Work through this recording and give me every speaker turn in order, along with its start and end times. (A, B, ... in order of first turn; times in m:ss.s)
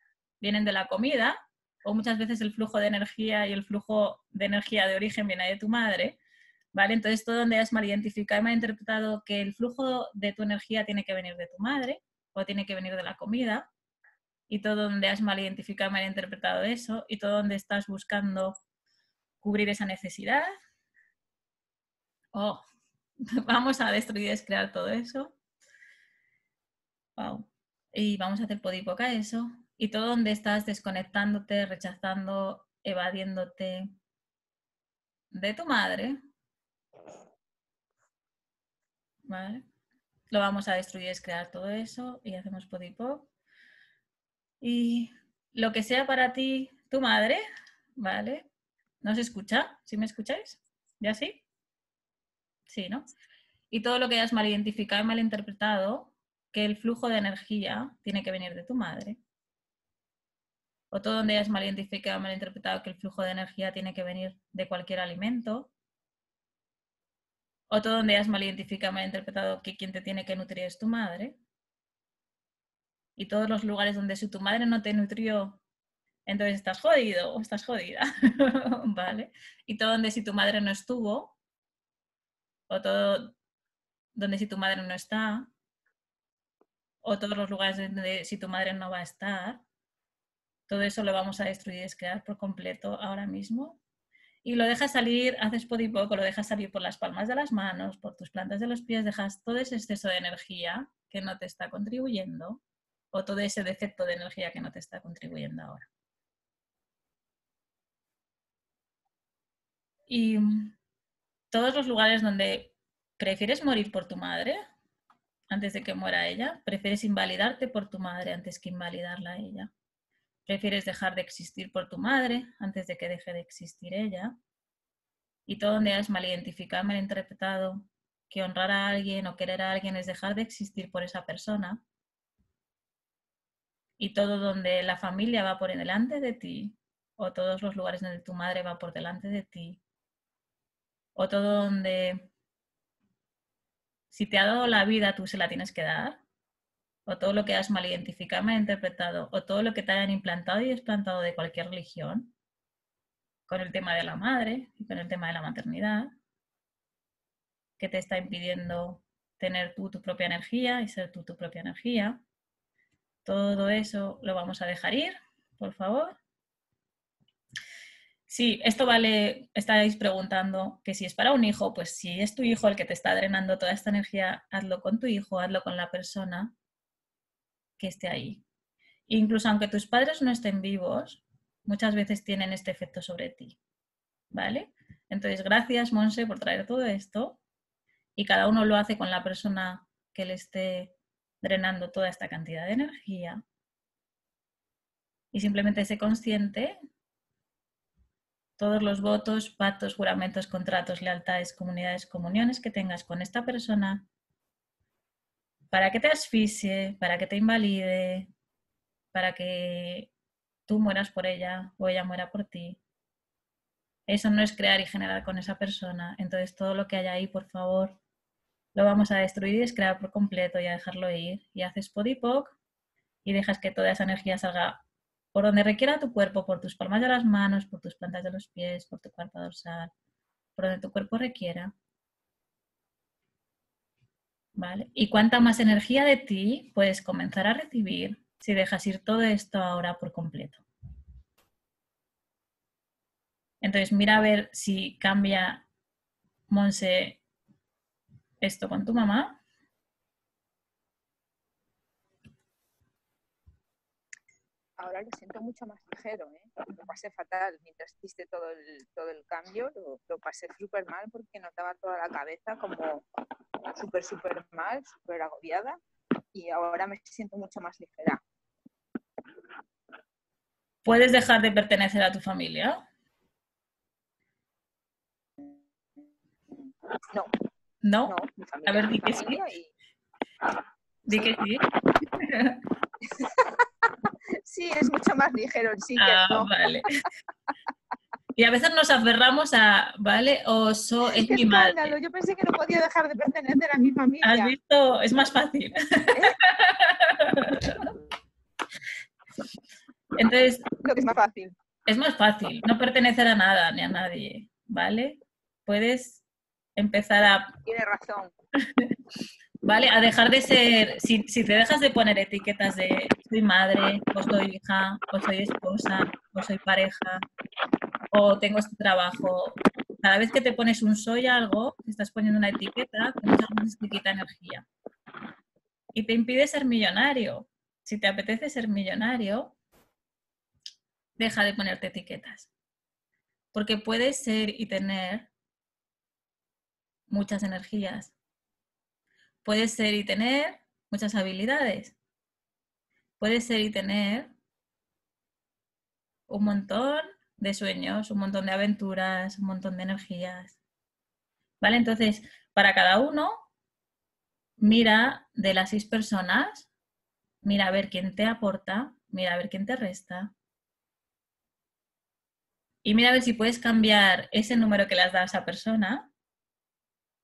0:00.4-0:06.2 A
0:06.7-0:13.7 A
0:14.5-0:18.6 A
0:19.4-0:20.5 A
0:22.3-0:22.6 A
0:23.4-0:25.4 A
0:27.2-0:33.9 A
0:35.3-0:36.2 A
0:39.3-0:39.6 A
0:40.3-0:43.3 A
0:44.6-0:47.4 A
0:48.0-0:48.4 A
0:49.0-0:51.4 A
0:52.7-0:53.1 A
0:53.7-0:59.2 A
1:00.9-1:05.7 A
1:07.7-1:11.4 A
1:13.2-1:15.6 A
1:16.3-1:21.4 A
1:22.7-1:23.3 A
1:24.2-1:25.5 A
1:27.0-1:29.6 A
1:30.7-1:33.8 A
1:34.4-1:45.9 A
1:50.1-1:50.8 A
1:51.5-1:54.6 A
1:55.5-1:59.7 A
2:00.5-2:04.4 A
2:05.5-2:11.8 A
2:14.0-2:19.8 A
2:21.2-2:22.3 A
2:24.1-2:26.2 A
2:27.1-2:32.3 A
2:33.5-2:36.1 A
2:37.8-2:42.2 A
2:43.2-2:46.2 A
2:48.3-2:56.5 A
2:57.8-2:58.4 A
2:59.1-3:03.6 A
3:04.3-3:07.4 A
3:08.2-3:13.4 A
3:15.3-3:16.8 A
3:18.6-3:24.1 A
3:25.7-3:28.3 A
3:29.1-3:30.1 A
3:30.7-3:32.8 A
3:34.1-3:38.0 A
3:38.8-3:42.6 A
3:43.2-3:44.8 A
3:45.3-3:49.9 A
3:50.6-3:51.7 A
3:54.6-4:00.6 A
4:03.6-4:05.6 A
4:06.5-4:07.2 A
4:08.4-4:09.4 A
4:14.8-4:23.0 B
4:23.7-4:25.8 B
4:26.3-4:28.2 B
4:30.8-4:32.8 A
4:36.5-4:37.3 B
4:37.8-4:38.2 A
4:38.1-4:39.7 B
4:38.7-4:39.4 A
4:41.1-4:41.4 B
4:41.1-4:41.6 A
4:42.2-4:42.6 A
4:43.0-4:46.5 B
4:46.0-4:46.9 A
4:48.4-4:52.0 A
4:51.1-4:54.5 B
4:54.2-4:57.9 A
5:00.2-5:00.8 A
5:00.8-5:01.6 B
5:01.9-5:06.2 A
5:06.8-5:07.5 A
5:07.6-5:08.3 B
5:09.6-5:17.2 A
5:18.1-5:24.7 A
5:26.0-5:29.6 A
5:31.2-5:32.5 A
5:33.5-5:35.3 A
5:37.1-5:38.1 A
5:39.4-5:42.0 A
5:43.2-5:44.3 A
5:46.3-5:50.6 A
5:51.6-5:53.4 A
5:54.6-5:56.7 A
5:57.4-6:00.3 A
6:02.8-6:06.1 A